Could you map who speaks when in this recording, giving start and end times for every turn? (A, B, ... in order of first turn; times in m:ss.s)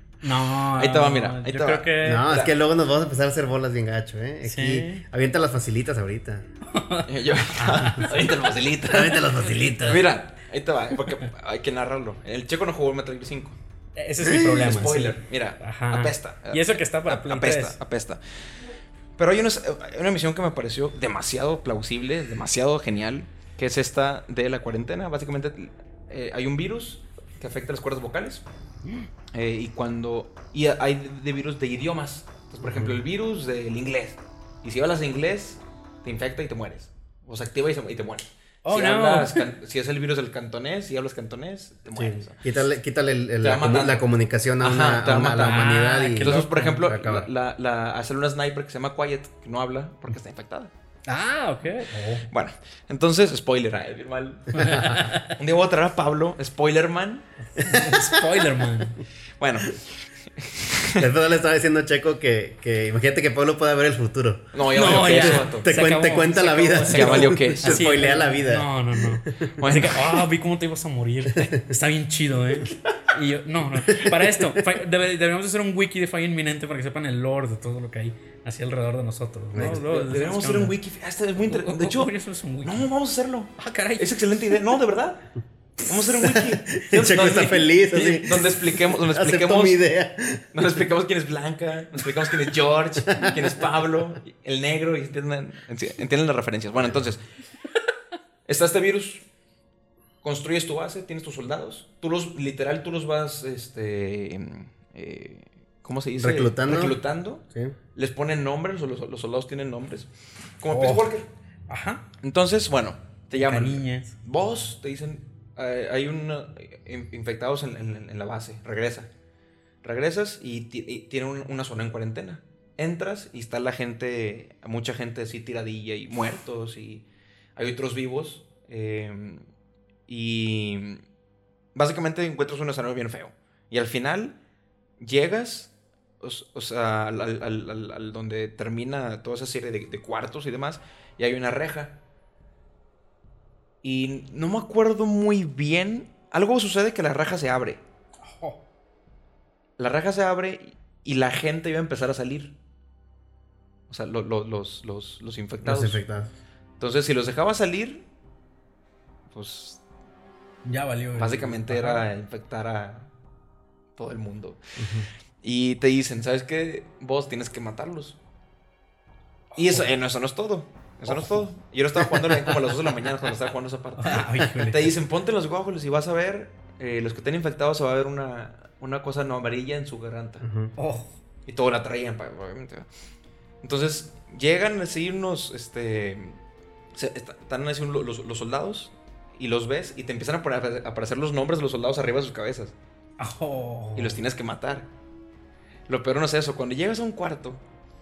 0:00.2-0:02.3 A
0:00.8-0:02.5 B
0:02.0-0:06.4 C
0:04.4-0:05.0 A
0:06.7-0:08.3 A
0:07.0-0:09.2 B
0:07.7-0:08.0 C
0:08.9-0:10.0 C
0:09.8-0:13.6 B
0:14.0-0:17.8 A
0:14.2-0:14.9 C
0:14.3-0:18.2 B
0:19.2-0:28.4 B
0:29.3-0:42.4 B
0:32.6-0:33.0 C
0:38.6-0:39.4 A
0:41.9-0:47.3 C
0:43.4-0:44.1 B
0:44.6-0:50.7 B
0:45.2-0:46.8 A
0:51.1-0:52.3 A
0:52.3-0:57.2 B
0:54.5-0:55.3 A
0:54.6-0:55.0 C
0:57.6-0:59.0 A
0:57.6-0:58.3 C
0:59.4-1:01.1 B
1:01.0-1:09.3 C
1:04.5-1:05.7 B
1:04.7-1:20.8 A
1:06.9-1:07.9 B
1:09.6-1:10.2 B
1:13.9-1:14.6 C
1:19.5-1:19.8 C
1:19.6-1:22.1 B
1:21.4-1:22.9 A
1:22.6-1:25.2 B
1:23.6-1:24.2 A
1:25.8-1:29.8 B
1:26.7-1:30.5 C
1:27.0-1:28.2 A
1:30.5-1:37.2 B
1:33.1-1:33.4 C
1:38.4-1:39.2 B
1:40.2-1:47.4 B
1:46.2-1:47.0 C
1:47.5-1:47.7 C
1:47.9-1:50.1 B
1:50.6-1:51.3 B
1:50.7-1:51.1 A
1:51.7-1:52.0 A
1:52.2-1:59.1 B
1:53.3-1:54.1 A
1:59.8-2:07.0 B
2:07.6-2:09.4 B
2:10.1-2:11.0 B
2:11.7-2:14.4 B
2:15.0-2:22.0 B
2:23.8-2:27.8 B
2:28.2-2:28.6 A
2:29.8-2:32.5 B
2:33.9-2:36.0 B
2:35.6-2:36.3 C
2:36.8-2:38.0 B
2:39.3-2:39.8 B
2:40.6-2:42.0 A
2:41.1-2:43.1 B
2:44.0-2:44.6 B
2:44.8-2:45.1 C
2:45.4-2:48.2 B
2:49.5-2:49.9 A
2:49.6-3:00.4 B
2:54.0-2:54.9 A
3:00.4-3:00.7 C
3:00.8-3:01.1 A
3:01.5-3:02.9 B
3:03.6-3:06.4 B
3:06.9-3:12.7 B
3:13.2-3:14.2 A
3:14.0-3:14.9 B
3:15.9-3:17.6 B